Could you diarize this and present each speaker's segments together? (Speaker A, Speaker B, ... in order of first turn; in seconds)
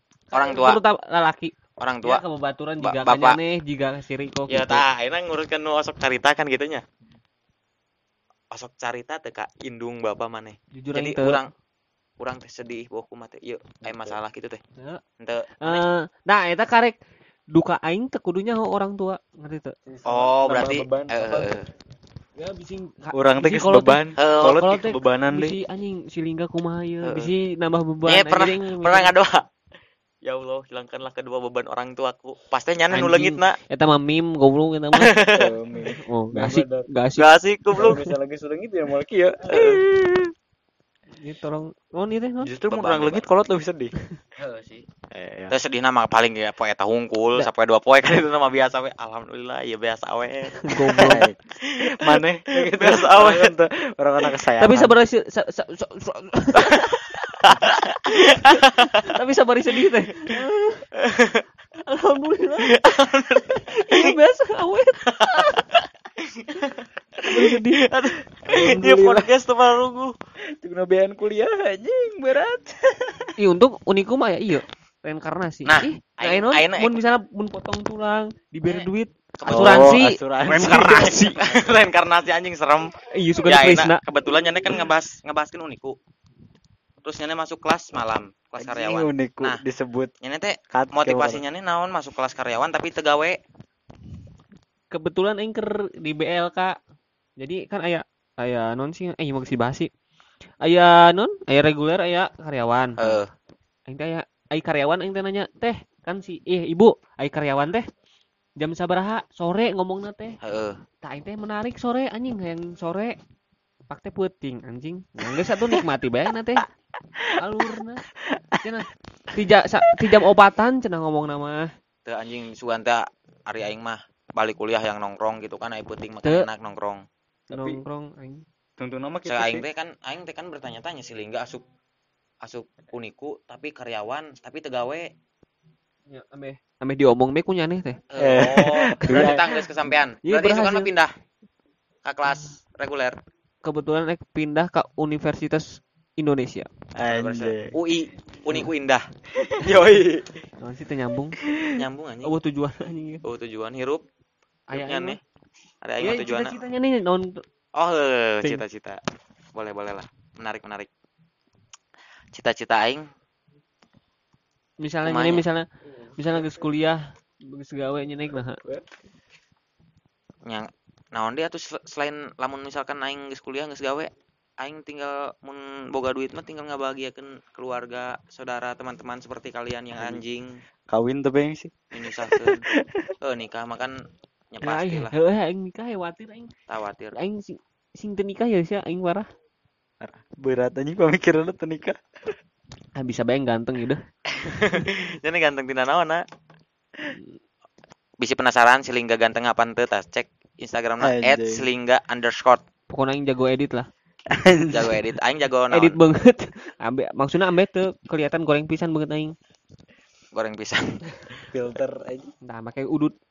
Speaker A: 0.3-0.8, 1.8-2.2, 2.8-3.4, 4.5-6.8, 8.5-11.5, 12.2-14.6, 15.2-15.8, 20.1-21.6, 24.2-24.6, 27.0-27.3, 28.1-29.4, 30.2-33.6, 35.0-35.5, 37.1-38.1, 42.7-43.3, 44.4-44.9, 45.5-53.5, 56.5-59.1, 61.0-61.4, 62.6-64.1, 65.0-70.1, 75.6-76.9, 79.4-80.0, 81.3-86.0, 87.0-89.6, 90.2-93.4, 103.0-103.3, 110.4-110.8, 122.0-127.0, 129.3-131.6, 132.4-135.1, 138.1-141.1, 142.0-143.2, 147.1-149.0, 149.7-150.0, 151.7-152.3, 153.2-154.0, 154.7-155.2, 155.8-156.6, 157.8-159.0, 159.5-160.9, 162.3-163.0, 165.0-165.4, 170.4-180.6, 181.9-182.6, 183.2-183.9, 184.5-185.1, 186.7-187.2, 194.4-196.2, 198.2-202.6, 204.7-206.0, 210.3-210.8
Speaker B: 0.3-4.8, 10.7-11.4, 15.6-17.0, 17.5-19.7, 22.4-29.1, 32.9-35.2, 36.0-37.3, 39.5-39.8, 41.2-42.5, 50.6-51.2, 54.6-57.2, 58.3-60.8, 61.9-62.8, 63.5-65.6, 67.3-67.8, 73.4-81.4, 83.1-84.0, 94.9-96.7, 97.4-99.9, 100.6-103.1, 103.9-107.8, 108.6-110.4, 111.0-113.1, 113.9-116.7, 117.4-118.0, 118.6-121.6, 127.5-128.4, 136.1-138.0, 139.1-139.4, 140.2-140.9, 143.6-146.7, 150.6-151.4, 152.2-153.2, 154.7-155.2, 156.0-157.4, 164.8-165.6, 166.2-168.6, 184.6-186.5, 187.1-189.2, 193.0-194.0, 197.1-197.3, 202.9-203.9, 205.7-209.3, 212.4-213.1
Speaker C: 13.8-14.2, 19.9-21.6, 23.1-25.6, 35.3-36.9, 37.7-40.3, 42.4-43.9, 45.1-45.5, 51.0-55.0, 68.3-69.3, 70.6-73.3, 79.5-81.8, 88.6-90.1, 90.7-91.4, 118.3-118.6, 127.5-127.8, 128.8-129.6, 138.2-139.4, 147.0-147.8, 149.4-150.2, 151.5-151.8, 180.0-180.2, 180.9-183.1, 190.0-192.0, 201.0-201.7, 204.3-205.0, 211.5-212.3